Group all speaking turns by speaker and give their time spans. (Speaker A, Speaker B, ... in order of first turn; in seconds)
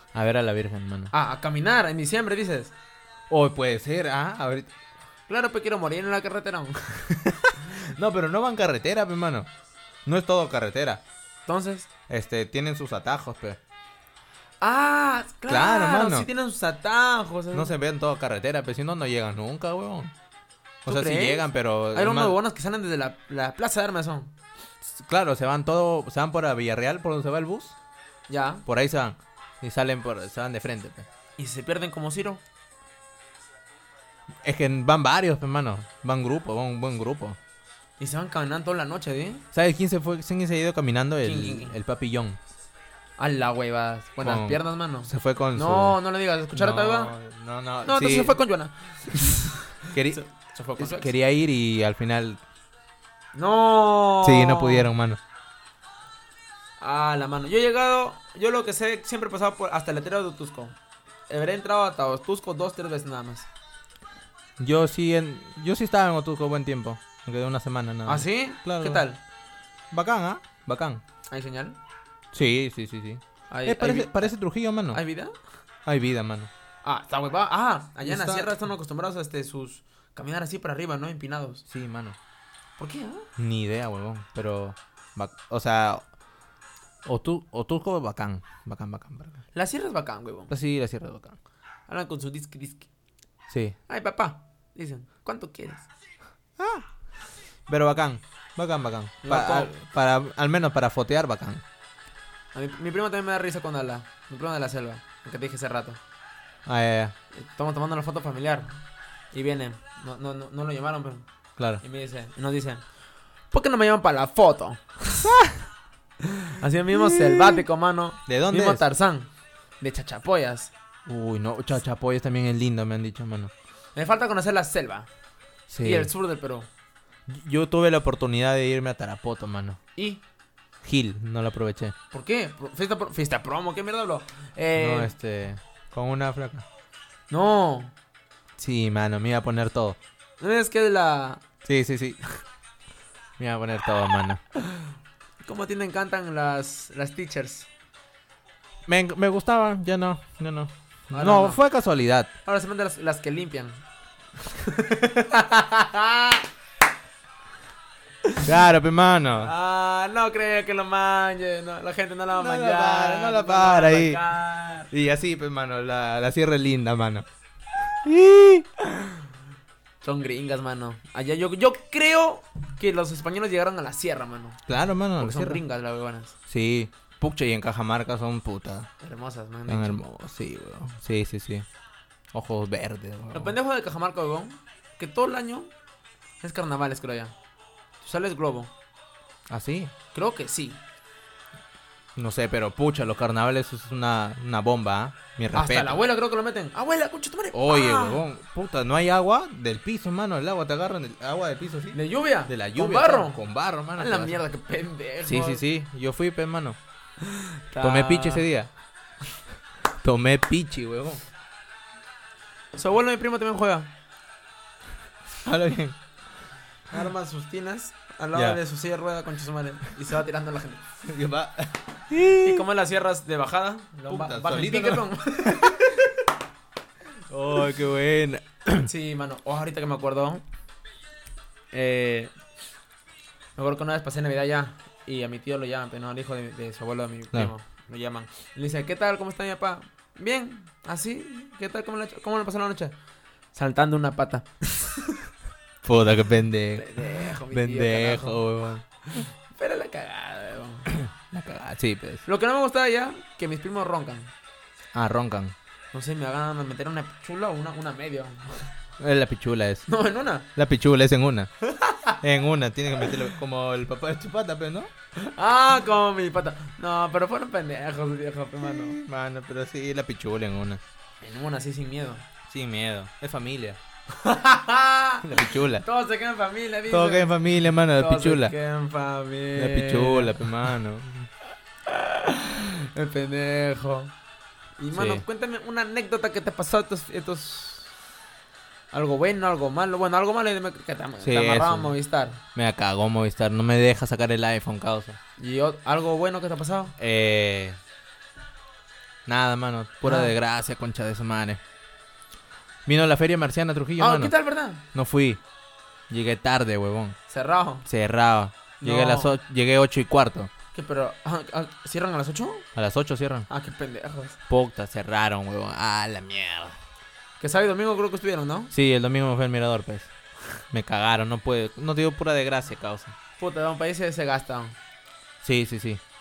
Speaker A: 0.1-1.1, 3.3-4.7, 7.0-9.5, 10.0-11.0, 12.1-13.6, 15.5-16.3, 17.5-20.1, 20.9-22.4, 24.8-27.8, 28.6-31.1, 34.4-37.4, 39.5-42.4, 44.2-46.0, 46.5-48.4, 49.9-50.2, 50.8-52.4, 54.2-55.2, 64.6-69.0, 69.9-71.0, 72.3-75.0, 75.8-76.5, 78.0-78.5, 81.7-82.2, 83.4-86.0, 87.0-89.4, 90.5-91.4, 93.5-93.8, 96.6-96.9, 97.7-101.6, 106.7-107.1, 115.2-115.6, 116.9-117.7, 118.3-118.8, 121.0-123.5, 125.7-126.1, 127.3-129.8, 130.8-131.9, 134.8-136.7, 138.6-140.0, 141.6-142.2, 143.4-144.4, 148.8-152.3, 158.4-159.5, 162.3-164.2, 164.9-167.2, 168.0-168.7, 174.7-175.6, 176.5-178.9, 179.7-181.6, 182.3-183.6, 189.5-189.9, 192.2-196.0, 197.5-204.4, 205.2-206.8, 207.8-208.7, 210.0-211.2, 215.4-216.0, 218.3-218.6, 221.0-222.6, 224.1-225.9, 227.3-228.9, 245.8-248.8, 250.9-252.2, 254.9-255.5, 259.0-259.9, 260.6-261.5, 262.2-264.9, 268.6-270.8, 272.5-273.8, 275.2-275.8, 276.9-278.5, 279.6-281.3, 284.9-285.2, 291.2-291.9, 292.5-295.2, 297.0-297.8, 299.2-301.6, 302.9-304.3, 304.9-305.4, 306.1-307.2, 307.9-310.5, 312.7-313.5, 314.5-316.8, 318.7-320.1, 320.7-323.1, 325.4-326.0
Speaker B: 1.1-2.7, 5.3-7.0, 11.5-11.9, 14.6-17.7, 20.8-24.3, 28.3-28.6, 31.4-32.4, 38.0-39.4, 41.2-41.8, 43.2-47.1, 47.8-51.1, 53.3-54.9, 56.8-60.8, 61.3-63.5, 68.0-69.2, 71.3-71.8, 73.5-74.3, 74.9-75.3, 76.8-81.6, 82.8-83.3, 89.5-90.5, 91.9-92.9, 93.9-95.9, 99.2-99.7, 102.5-106.0, 107.3-108.7, 109.3-111.2, 111.8-112.8, 113.5-115.4, 116.2-119.3, 119.8-120.7, 123.9-125.1, 125.8-126.7, 129.9-130.2, 132.1-135.1, 137.3-137.9, 140.4-141.4, 144.6-144.9, 145.4-147.7, 151.1-151.6, 152.4-153.8, 154.4-156.5, 158.2-158.5, 159.4-164.9, 168.8-169.2, 170.0-174.6, 175.2-176.3, 179.0-180.0, 183.3-185.7, 186.4-187.3, 188.0-188.7, 190.1-190.8, 195.5-198.2, 201.9-203.4, 203.9-205.6, 207.2-208.5, 212.7-213.9, 216.9-220.8, 222.3-226.1, 228.8-230.4, 231.7-232.3, 233.6-242.9, 243.5-245.2, 246.7-248.4, 249.1-250.9, 252.2-254.3, 255.9-258.7, 259.9-260.5, 261.6-262.2, 265.1-269.0, 271.2-272.2, 274.1-277.4, 277.9-280.7, 281.9-284.1, 284.8-287.9, 288.9-292.4, 295.4-296.9, 300.0-300.3, 304.0-304.8, 307.3-307.9, 308.8-309.4, 310.7-312.6, 313.5-314.4, 317.4-318.7, 323.4-324.8